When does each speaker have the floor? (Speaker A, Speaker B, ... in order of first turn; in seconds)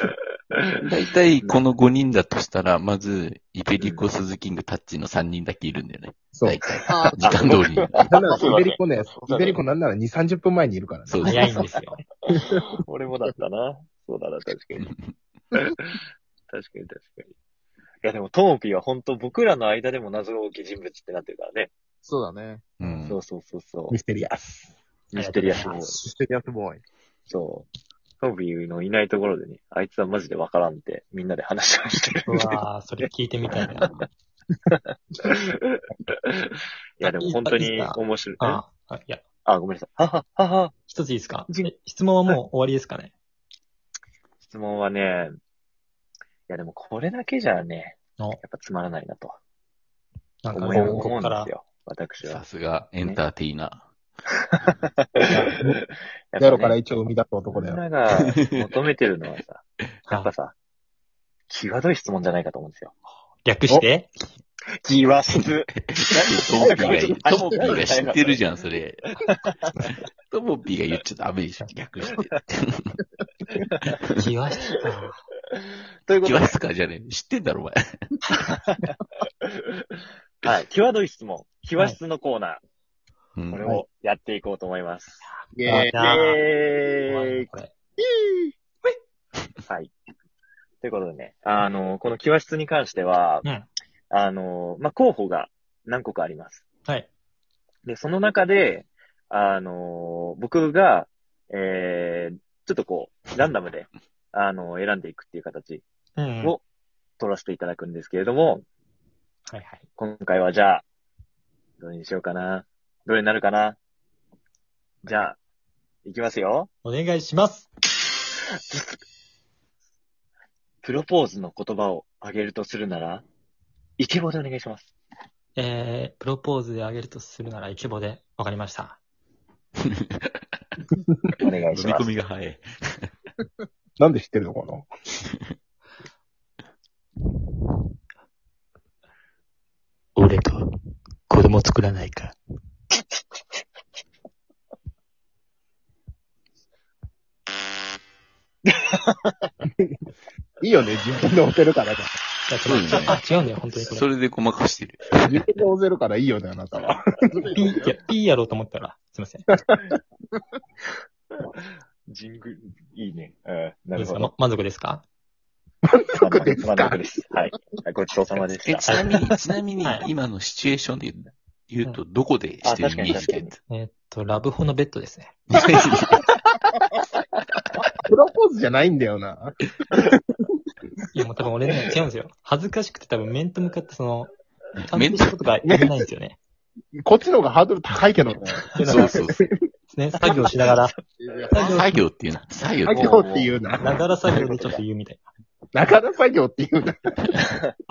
Speaker A: 0.8-6.7, 7.2-7.9, 11.1-11.7, 14.8-15.1, 22.8-23.2, 52.2-53.9, 58.2-58.4, 65.9-69.1, 70.3-73.0, 73.9-74.2, 76.1-77.8, 83.3-83.7, 131.7-133.1, 152.7-153.2, 153.8-155.4, 168.6-173.6, 175.5-176.3, 184.8-185.5, 188.8-189.4, 191.6-193.1
Speaker B: 3.8-4.0, 6.7-9.6, 12.4-14.9, 16.5-17.3, 18.0-21.7, 23.1-23.9, 25.1-26.0, 27.3-27.7, 28.2-32.6, 33.5-33.9, 35.2-35.8, 36.4-38.6, 39.4-40.7, 44.4-45.3, 46.5-49.4, 50.5-52.4, 56.3-56.8, 57.5-60.5, 61.5-62.9, 64.8-68.4, 69.2-69.9, 73.5-73.9, 75.5-76.6, 80.4-82.6, 83.5-85.3, 86.0-87.5, 89.7-89.9, 90.8-93.5, 94.1-96.6, 97.8-105.8, 107.2-108.6, 110.0-110.8, 111.8-113.8, 115.0-115.4, 116.0-116.7, 118.7-118.9, 120.8-123.2, 124.0-124.9, 131.4-132.1, 148.7-149.4, 162.1-164.3, 166.2-169.2, 172.6-173.6, 190.2-190.9, 192.9-194.8
Speaker C: 6.3-7.3, 8.0-11.6, 23.9-24.7, 50.6-51.1, 55.3-55.8, 56.4-57.8, 134.0-134.9, 150.6-152.1, 155.2-157.6, 165.8-167.0, 178.0-180.4, 187.0-189.4, 192.8-194.0, 195.7-197.4
Speaker D: 6.9-7.5, 8.2-8.5, 22.0-22.6, 26.0-26.8, 85.5-86.0, 157.3-157.9, 191.2-191.9
Speaker E: 11.2-12.0, 22.8-23.1, 25.2-25.9, 32.2-33.9, 37.0-39.2, 40.9-43.1, 50.4-51.5, 63.4-64.1, 74.2-75.2, 85.2-86.4, 87.1-87.7, 106.2-106.5, 109.5-109.8, 116.8-117.7, 125.5-129.0, 140.2-140.6, 141.3-142.3, 152.5-154.1, 157.5-159.5, 163.9-165.0, 168.9-169.1, 173.7-175.4, 181.1-184.3, 184.8-186.4, 188.8-189.2, 189.9-191.0, 191.5-191.9, 193.8-195.2